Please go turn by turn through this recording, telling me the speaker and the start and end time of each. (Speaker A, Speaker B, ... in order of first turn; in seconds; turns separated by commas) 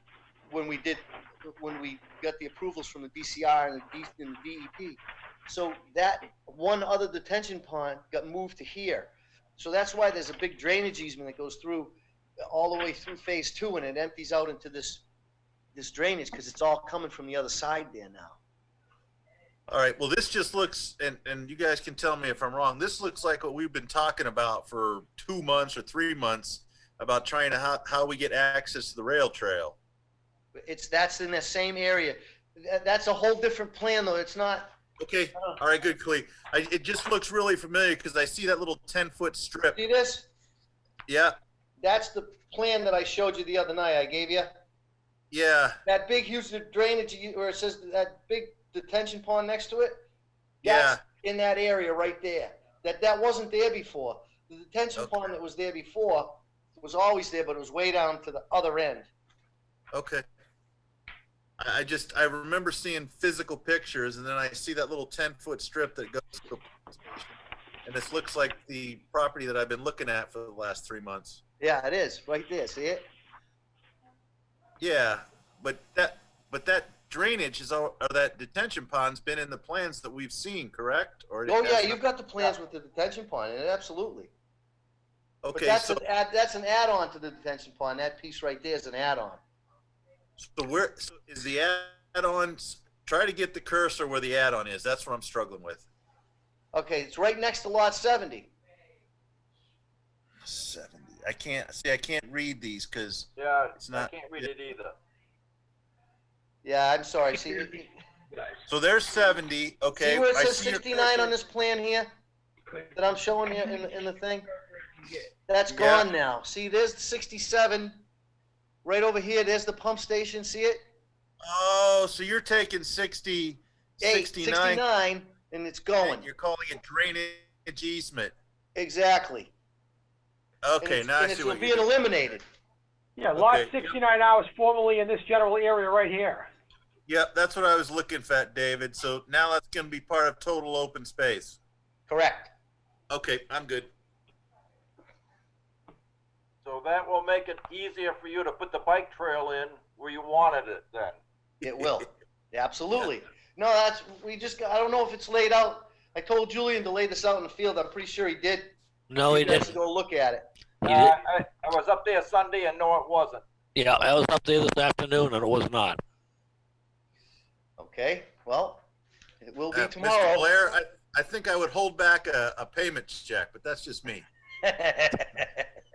Speaker A: 0.5-12.0, Speaker A: 12.5-15.0, Speaker A: 15.7-18.4, Speaker B: 19.7-29.8, Speaker A: 30.5-34.7, Speaker B: 35.0-39.8, Speaker A: 39.7-40.3, Speaker B: 41.1-41.3, Speaker A: 41.8-44.5, Speaker B: 45.3-45.8, Speaker A: 45.9-49.9, Speaker B: 50.6-51.0, Speaker A: 50.6-59.1, Speaker B: 55.0-55.3, Speaker B: 59.9-60.2, Speaker B: 61.6-71.4, Speaker A: 71.6-73.1, Speaker B: 74.8-82.5, Speaker A: 81.5-84.3, Speaker B: 85.4-86.0, Speaker A: 85.5-89.4, Speaker B: 90.4-95.8, Speaker A: 96.7-98.5, Speaker B: 100.4-104.5, Speaker C: 103.4-105.0, Speaker A: 106.6-107.9, Speaker B: 108.7-111.3, Speaker A: 109.9-112.1, Speaker A: 112.9-114.5, Speaker A: 115.5-118.0, Speaker B: 115.7-116.1, Speaker A: 118.8-120.8, Speaker B: 121.4-124.8, Speaker A: 124.0-126.3, Speaker B: 126.0-128.3, Speaker A: 128.7-129.5, Speaker B: 130.6-131.9, Speaker A: 130.8-132.4, Speaker D: 133.2-136.5, Speaker B: 133.3-133.9, Speaker B: 137.1-141.6, Speaker A: 142.1-142.5, Speaker B: 143.1-143.9, Speaker C: 146.6-151.2, Speaker A: 151.6-160.4, Speaker E: 159.1-159.7, Speaker C: 160.8-163.4, Speaker E: 160.8-161.2, Speaker E: 163.7-166.0, Speaker A: 167.8-168.8, Speaker A: 169.4-170.5, Speaker B: 169.7-174.2, Speaker A: 174.6-175.7